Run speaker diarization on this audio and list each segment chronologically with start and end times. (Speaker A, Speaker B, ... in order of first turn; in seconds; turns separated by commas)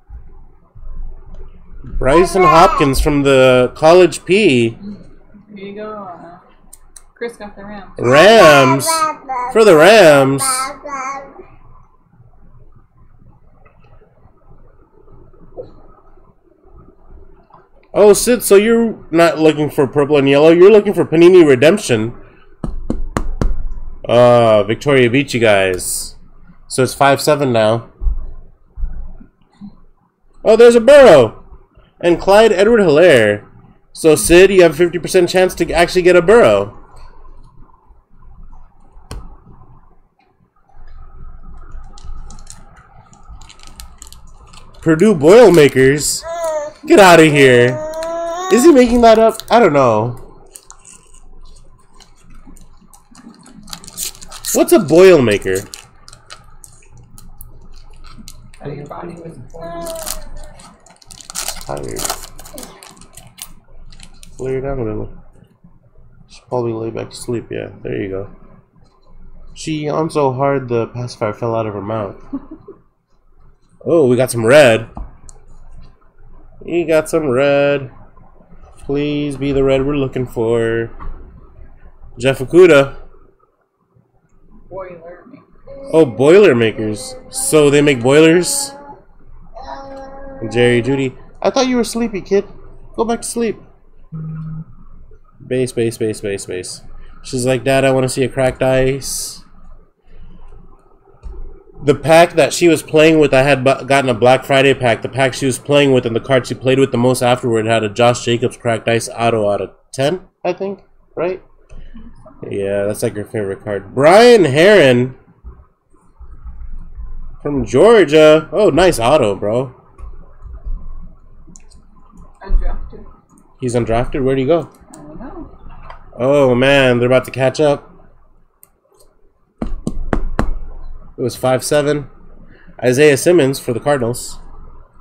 Speaker A: 1.9-4.8, Speaker B: 4.8-6.4, Speaker B: 7.1-8.2, Speaker A: 8.0-10.9, Speaker A: 17.9-22.1, Speaker A: 24.1-26.2, Speaker A: 26.7-27.9, Speaker A: 30.4-31.4, Speaker A: 32.0-36.7, Speaker A: 44.8-46.3, Speaker A: 46.8-47.8, Speaker A: 48.5-50.2, Speaker A: 54.5-55.7, Speaker B: 58.6-60.0, Speaker A: 61.5-62.1, Speaker A: 64.4-65.1, Speaker A: 66.3-68.3, Speaker A: 69.5-72.2, Speaker A: 73.8-74.9, Speaker A: 76.6-77.9, Speaker A: 78.8-80.9, Speaker A: 82.2-82.9, Speaker B: 84.7-85.5, Speaker A: 85.9-88.8, Speaker A: 90.4-93.6, Speaker A: 95.4-99.4, Speaker A: 101.8-111.4, Speaker B: 112.0-112.5, Speaker A: 112.4-115.2, Speaker A: 117.4-119.7, Speaker B: 122.4-123.1, Speaker A: 123.6-124.7, Speaker B: 124.9-125.5, Speaker A: 126.2-127.9, Speaker A: 131.2-132.1, Speaker A: 132.8-134.4